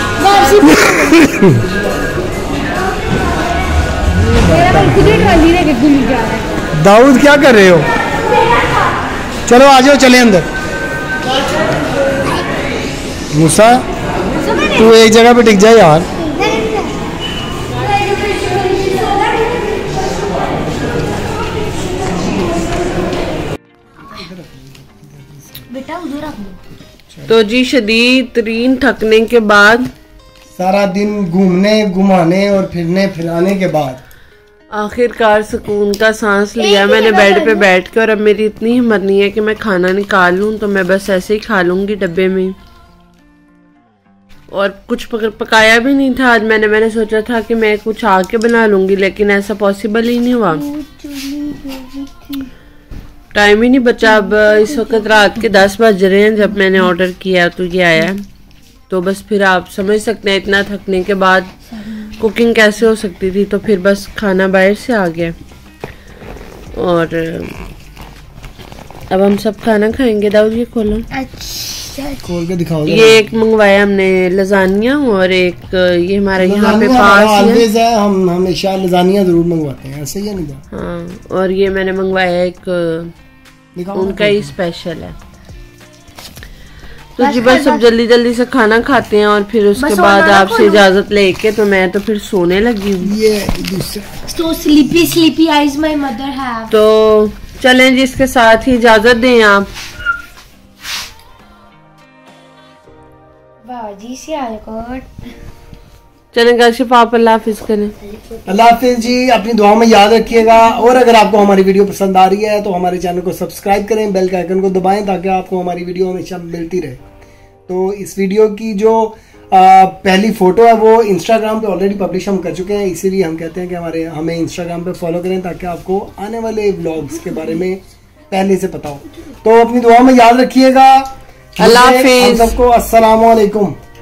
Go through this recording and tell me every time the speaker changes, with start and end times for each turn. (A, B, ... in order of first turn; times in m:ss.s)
0:00.2-0:01.4 A
0:00.6-0:01.7 B
0:04.1-0:05.5 B
0:04.7-0:06.6 A
0:06.7-0:07.9 B
0:09.5-0:10.5 B
0:13.3-0:13.8 B
0:14.7-0:16.1 B
0:16.4-0:16.9 A
0:19.9-0:20.9 B
0:22.1-0:23.0 B
0:24.0-0:25.8 B
0:25.7-0:26.6 A
0:27.1-0:27.4 B
0:27.3-0:29.9 C
0:30.6-0:34.0 B
0:34.7-0:42.6 C
0:36.7-0:37.6 A
0:44.5-0:50.7 C
0:50.5-0:52.5 A
0:53.3-0:58.3 C
0:54.0-0:55.4 A
0:58.9-1:01.5 C
1:02.1-1:05.4 C
1:06.7-1:07.6 C
1:09.1-1:11.1 C
1:11.1-1:12.2 A
1:12.2-1:13.3 B
1:12.9-1:17.7 C
1:16.4-1:20.6 B
1:20.7-1:23.1 C
1:23.8-1:24.6 B
1:23.9-1:25.2 C
1:27.2-1:33.1 C
1:27.2-1:27.8 A
1:29.8-1:30.8 A
1:33.0-1:34.3 B
1:34.3-1:36.7 A
1:34.9-1:35.2 B
1:36.7-1:39.7 C
1:43.6-1:45.1 A
1:46.3-1:47.9 C
1:48.0-1:48.5 A
1:48.4-1:57.0 B
1:57.7-2:13.8 B
2:11.6-2:12.6 C